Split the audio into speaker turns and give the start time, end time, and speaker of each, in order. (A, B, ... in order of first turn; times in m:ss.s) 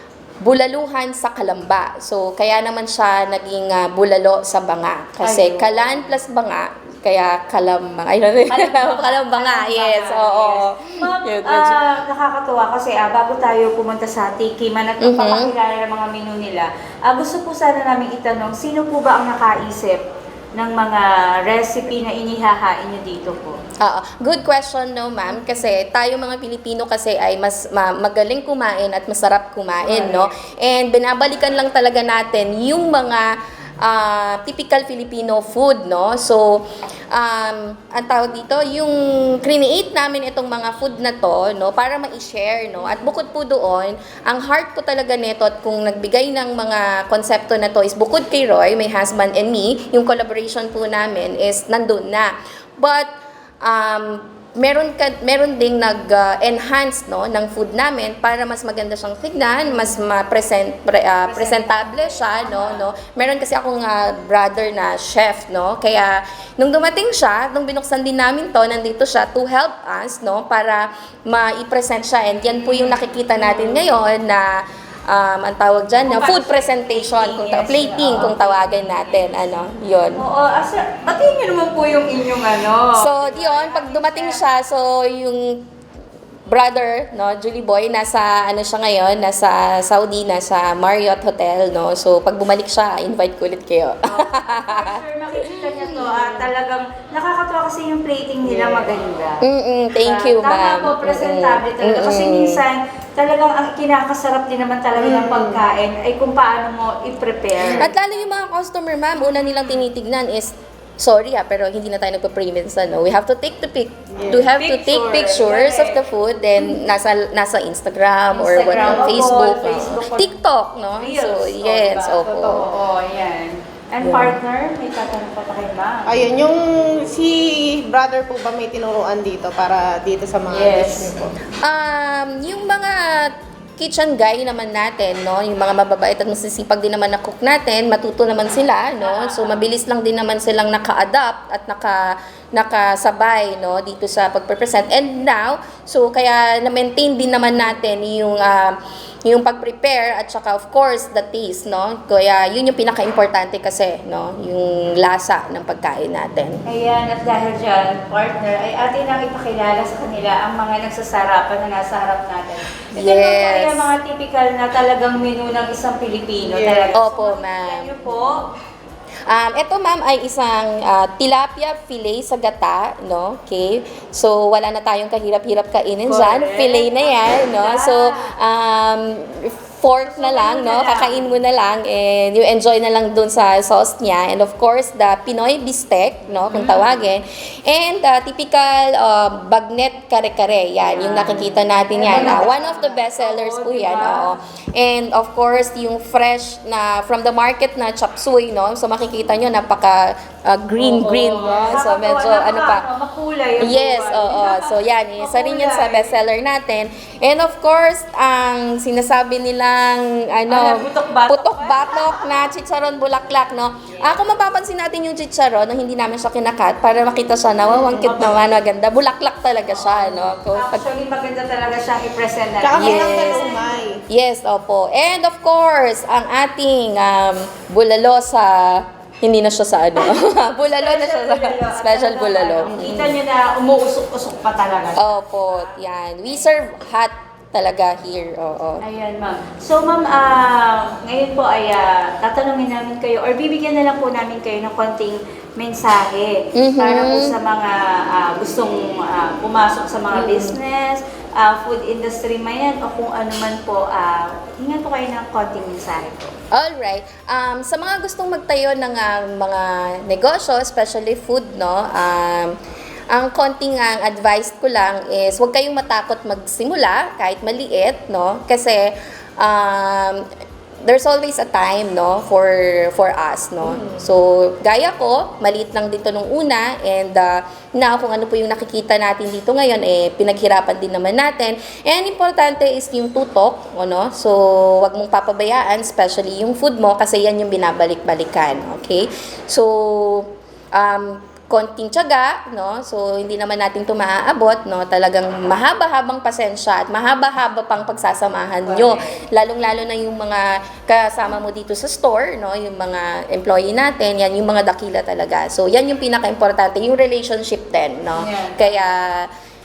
0:00.4-0:11.8 A
0:05.2-0:06.1 B
0:08.5-0:20.0 B
0:15.0-0:15.5 A
0:20.6-0:23.6 B
0:23.8-0:53.1 A
0:29.8-0:30.3 B
0:53.6-1:20.2 A
1:01.3-1:02.8 B
1:12.5-1:13.8 B
1:16.1-1:19.1 B
1:20.2-1:24.4 B
1:22.9-1:25.7 A
1:26.5-1:36.5 A
1:34.0-1:39.4 B
1:38.4-1:38.9 C
1:39.4-1:42.6 A
1:40.0-1:47.9 B
1:44.9-1:45.6 C
1:47.6-1:47.8 C
1:47.7-2:02.7 A
1:54.1-1:54.5 C
1:54.5-1:56.0 B
1:58.3-2:00.3 B
1:58.7-1:59.2 C
2:01.0-2:06.1 B
2:04.0-2:04.4 A
2:06.1-2:11.3 C
2:10.5-2:11.1 B
2:11.6-2:36.6 A
2:19.0-2:19.6 B
2:36.6-2:48.5 B
2:43.0-2:43.9 A
2:46.4-2:46.9 C
2:46.9-2:48.0 A
2:49.3-3:22.8 A
2:56.1-2:58.3 B
3:00.0-3:01.3 B
3:06.5-3:07.0 B
3:10.9-3:14.3 B
3:12.1-3:12.5 C
3:20.8-3:26.1 B
3:23.6-3:40.8 A
3:30.5-3:32.2 B
3:33.9-3:34.2 B
3:37.7-3:38.4 B
3:39.7-3:43.8 B
3:42.6-3:44.0 C
3:42.8-3:43.5 A
3:44.1-3:53.2 A
3:50.7-3:55.8 B
3:55.0-3:58.8 A
3:58.8-4:16.3 B
4:06.5-4:07.3 A
4:10.1-4:10.6 C
4:16.5-4:22.6 A
4:23.1-4:30.2 A
4:30.8-5:09.3 A
4:33.6-4:34.0 C
4:58.6-4:59.2 B
5:08.2-5:08.6 B